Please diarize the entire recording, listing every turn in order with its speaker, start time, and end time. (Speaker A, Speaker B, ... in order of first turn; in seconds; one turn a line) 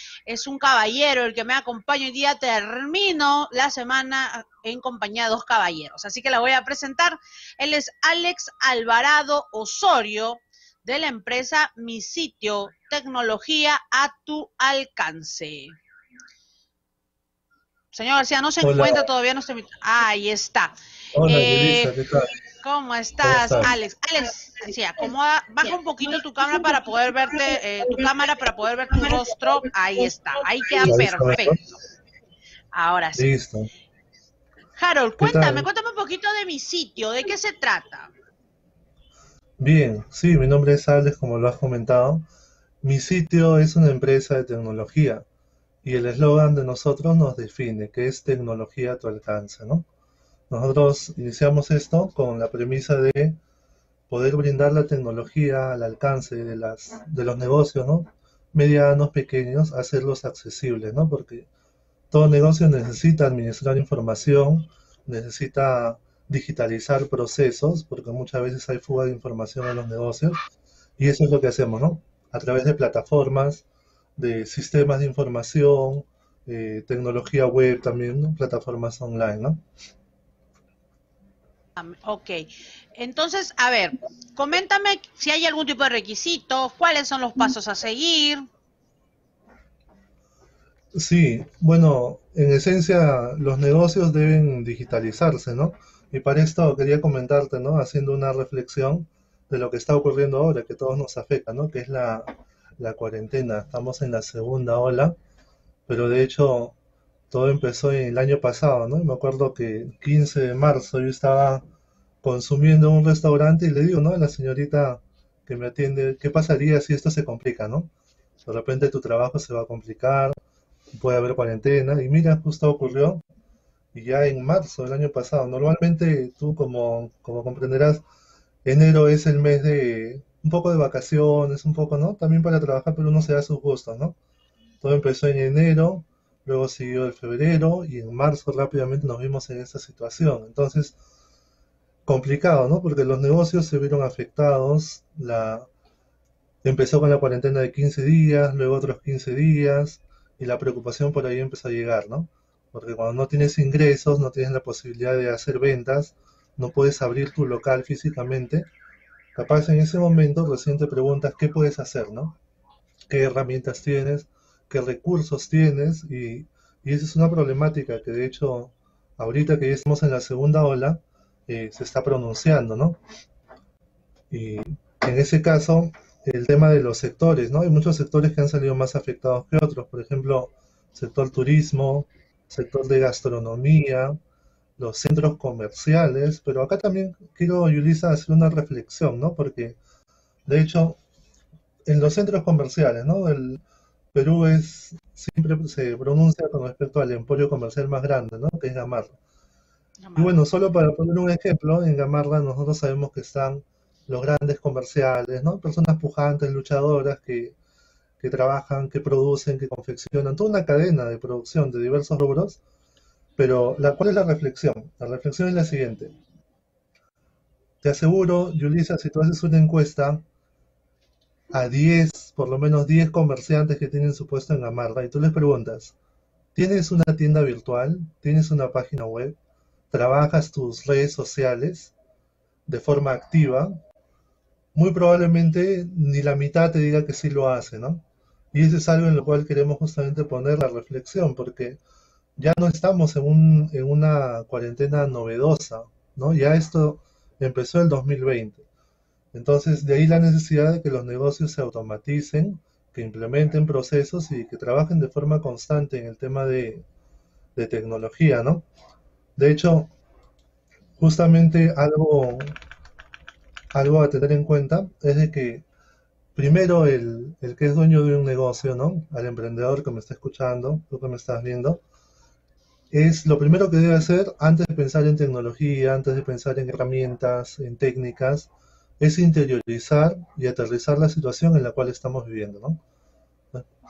Speaker A: 0.3-15.8
Speaker A: 17.9-20.7
Speaker B: 18.6-19.1
Speaker B: 21.1-22.3
Speaker A: 21.2-21.9
Speaker A: 22.6-31.7
Speaker B: 23.2-23.7
Speaker B: 30.8-31.6
Speaker A: 32.7-33.3
Speaker B: 33.1-33.7
Speaker A: 34.8-38.1
Speaker B: 35.2-35.7
Speaker B: 39.6-42.3
Speaker B: 42.8-45.2
Speaker B: 45.8-49.8
Speaker B: 50.5-53.4
Speaker B: 54.1-61.5
Speaker B: 62.1-70.4
Speaker B: 71.0-73.6
Speaker B: 74.2-79.6
Speaker A: 81.8-88.4
Speaker B: 90.9-105.1
Speaker B: 105.9-106.8
Speaker B: 107.3-111.6
Speaker B: 112.2-117.9
Speaker B: 118.4-120.4
Speaker B: 120.9-123.2
Speaker B: 123.9-128.0
Speaker B: 128.6-134.2
Speaker B: 134.8-140.9
Speaker B: 142.1-145.7
Speaker B: 146.6-158.7
Speaker B: 159.3-162.4
Speaker B: 163.1-173.0
Speaker B: 174.3-184.2
Speaker B: 184.8-189.8
Speaker B: 190.4-191.0
Speaker B: 191.9-193.6
Speaker B: 194.1-199.2
Speaker A: 200.0-200.4
Speaker B: 200.2-207.6
Speaker B: 208.2-212.6
Speaker B: 213.3-216.1
Speaker B: 217.8-220.2
Speaker B: 221.5-225.9
Speaker B: 226.5-229.3
Speaker B: 229.9-231.9
Speaker B: 232.7-233.8
Speaker B: 234.7-241.8
Speaker B: 242.4-248.7
Speaker B: 249.3-256.9
Speaker B: 257.6-258.6
Speaker B: 259.4-259.9
Speaker B: 261.0-262.6
Speaker B: 263.7-265.7
Speaker B: 266.4-271.8
Speaker B: 272.9-282.8